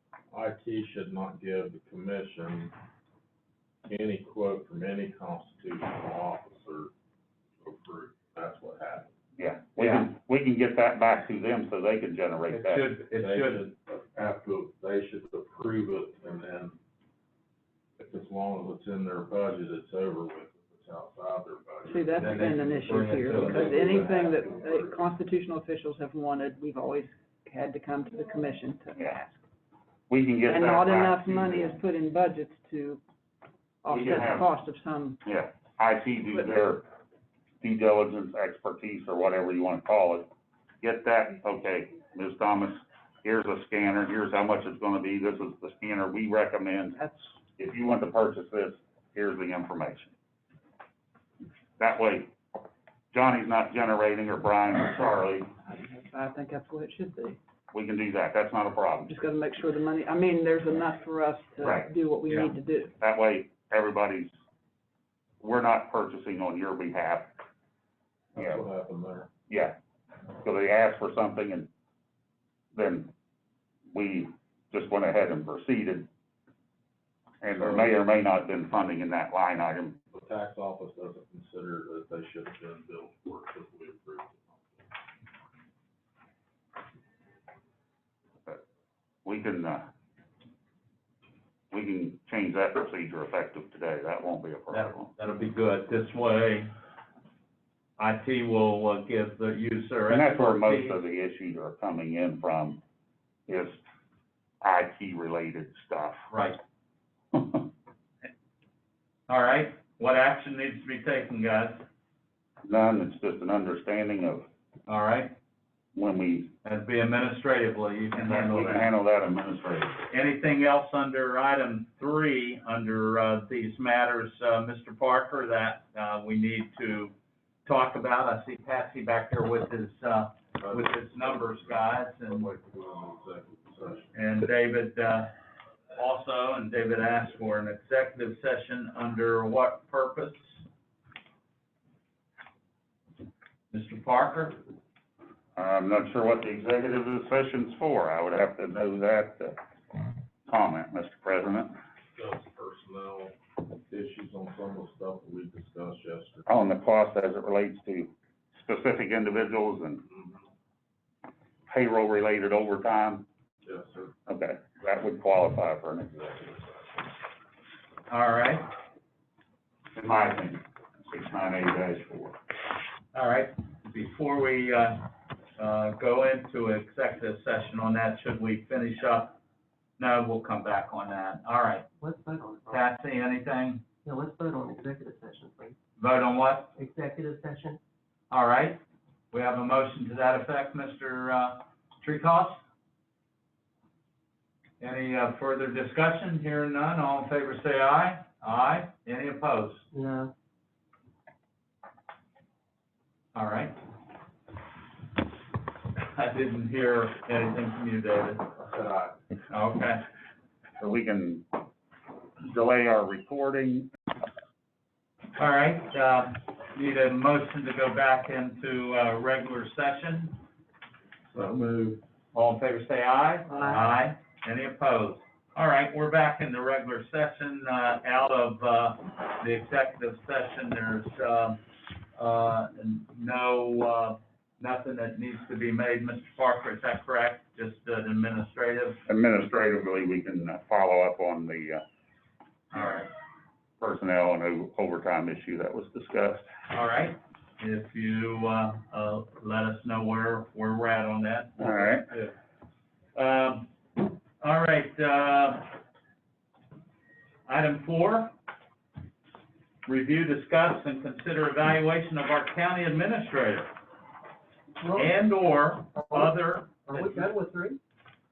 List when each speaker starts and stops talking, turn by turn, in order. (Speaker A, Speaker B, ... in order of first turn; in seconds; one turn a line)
Speaker A: 0.3-2.7
Speaker A: 3.8-6.9
Speaker A: 7.6-9.1
Speaker B: 9.4-12.9
Speaker C: 9.8-10.1
Speaker C: 12.5-13.6
Speaker A: 13.2-16.8
Speaker A: 18.0-25.0
Speaker D: 21.9-29.4
Speaker C: 22.2-24.1
Speaker B: 30.1-31.8
Speaker D: 30.4-33.0
Speaker D: 33.8-35.2
Speaker B: 33.9-34.5
Speaker B: 35.2-36.8
Speaker B: 37.6-40.3
Speaker B: 40.8-50.1
Speaker B: 51.8-52.3
Speaker B: 53.1-55.5
Speaker D: 55.7-57.4
Speaker B: 57.7-59.1
Speaker D: 59.0-62.9
Speaker B: 61.6-61.9
Speaker C: 62.3-62.5
Speaker B: 63.0-64.4
Speaker B: 65.4-67.3
Speaker A: 68.3-69.3
Speaker B: 68.4-68.6
Speaker B: 69.5-69.8
Speaker B: 70.4-71.7
Speaker B: 72.7-73.1
Speaker B: 73.9-76.1
Speaker B: 77.4-80.0
Speaker A: 77.5-78.0
Speaker A: 80.1-84.8
Speaker B: 89.2-89.9
Speaker B: 91.7-95.1
Speaker C: 94.7-96.7
Speaker C: 98.0-101.0
Speaker B: 100.1-102.8
Speaker B: 103.5-103.8
Speaker B: 104.6-106.3
Speaker C: 106.3-106.6
Speaker C: 109.3-111.8
Speaker B: 112.6-114.5
Speaker C: 114.9-115.3
Speaker B: 115.9-116.5
Speaker C: 116.6-118.9
Speaker B: 118.2-120.1
Speaker C: 120.1-127.1
Speaker C: 127.7-132.5
Speaker A: 130.6-134.1
Speaker C: 134.1-135.3
Speaker C: 135.9-140.6
Speaker C: 143.7-144.6
Speaker B: 145.6-149.6
Speaker B: 150.5-151.8
Speaker A: 152.1-153.3
Speaker A: 153.9-156.5
Speaker B: 156.5-160.0
Speaker B: 161.7-163.2
Speaker A: 163.6-164.1
Speaker B: 164.3-166.8
Speaker C: 168.1-168.7
Speaker B: 169.9-172.3
Speaker C: 173.1-179.4
Speaker C: 180.0-181.9
Speaker E: 182.0-182.8
Speaker C: 182.7-183.8
Speaker E: 184.0-185.8
Speaker C: 186.0-186.7
Speaker E: 186.8-187.8
Speaker C: 188.3-188.8
Speaker C: 189.3-192.6
Speaker C: 194.8-199.8
Speaker E: 199.9-200.3
Speaker C: 203.3-203.8
Speaker C: 206.0-208.5
Speaker A: 208.5-209.2
Speaker C: 209.5-210.0
Speaker B: 210.8-211.4
Speaker B: 212.4-213.9
Speaker C: 215.4-220.3
Speaker A: 221.3-222.0
Speaker C: 222.3-231.6
Speaker D: 223.5-223.8
Speaker C: 232.1-239.0
Speaker B: 239.1-241.8
Speaker C: 242.7-243.0
Speaker B: 242.7-243.0
Speaker B: 243.8-246.5
Speaker C: 246.7-252.3
Speaker B: 251.6-252.1
Speaker C: 253.1-255.7
Speaker C: 257.5-258.3
Speaker C: 259.9-263.7
Speaker E: 264.8-265.1
Speaker C: 264.9-267.3
Speaker E: 265.9-266.3
Speaker E: 266.9-267.8